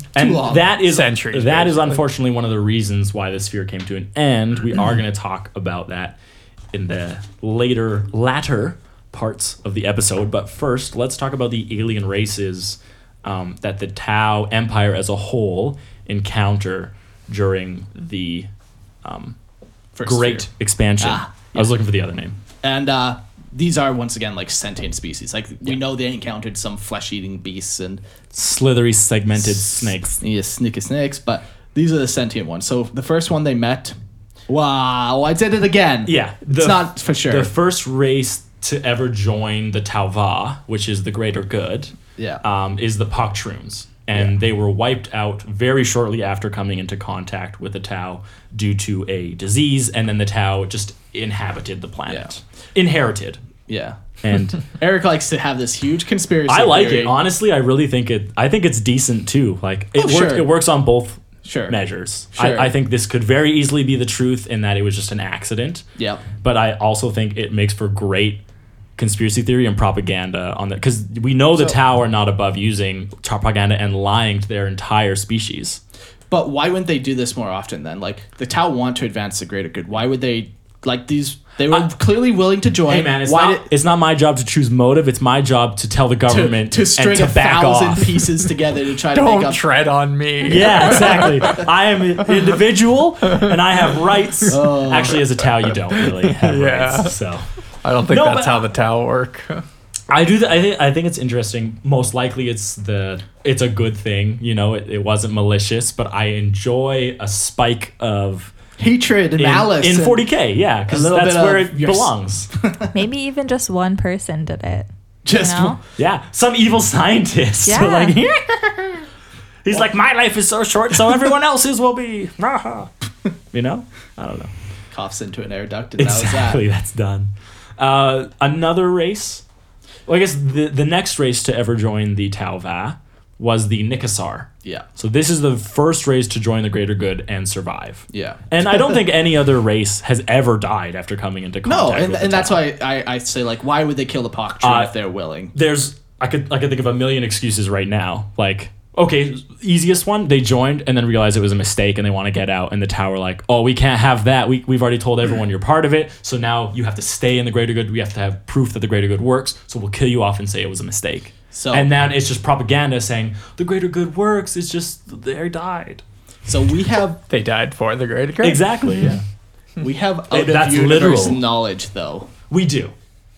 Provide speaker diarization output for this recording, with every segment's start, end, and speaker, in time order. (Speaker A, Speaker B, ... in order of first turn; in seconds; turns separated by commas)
Speaker A: 0.1-6.2, Speaker B: 0.2-0.6, Speaker C: 0.8-2.0, Speaker A: 6.7-18.5, Speaker A: 19.0-19.4, Speaker B: 20.0-21.7, Speaker A: 20.1-22.4, Speaker B: 22.6-28.0, Speaker A: 28.3-30.2, Speaker B: 29.5-34.0, Speaker B: 34.5-37.5, Speaker A: 36.1-53.4, Speaker B: 42.2-42.4, Speaker B: 52.1-52.3, Speaker B: 53.7-54.0, Speaker A: 54.2-54.7, Speaker B: 54.8-57.1, Speaker A: 56.5-65.8, Speaker B: 60.0-60.5, Speaker B: 61.4-61.8, Speaker B: 62.4-62.7, Speaker B: 66.0-66.2, Speaker A: 66.4-68.4, Speaker A: 69.0-75.8, Speaker B: 76.3-83.7, Speaker A: 82.9-88.3, Speaker B: 86.3-89.6, Speaker C: 89.1-91.4, Speaker A: 90.5-97.5, Speaker B: 90.7-91.4, Speaker B: 94.5-95.3, Speaker C: 96.0-97.2, Speaker C: 97.8-99.6, Speaker A: 98.1-98.7, Speaker A: 100.1-108.5, Speaker B: 108.8-110.2, Speaker A: 109.4-112.5, Speaker B: 110.9-112.9, Speaker D: 112.9-115.8, Speaker B: 115.2-115.8, Speaker A: 116.0-119.1, Speaker D: 117.7-118.2, Speaker A: 119.6-122.9, Speaker A: 123.5-124.5, Speaker B: 124.9-126.6, Speaker A: 126.0-129.4, Speaker A: 130.1-142.6, Speaker B: 138.1-138.5, Speaker B: 141.7-145.5, Speaker A: 144.6-144.9, Speaker A: 145.5-166.0, Speaker B: 161.5-161.9, Speaker B: 166.5-167.2, Speaker C: 167.3-168.7, Speaker A: 168.4-169.2, Speaker B: 169.8-172.3, Speaker A: 170.3-171.4, Speaker A: 172.5-172.9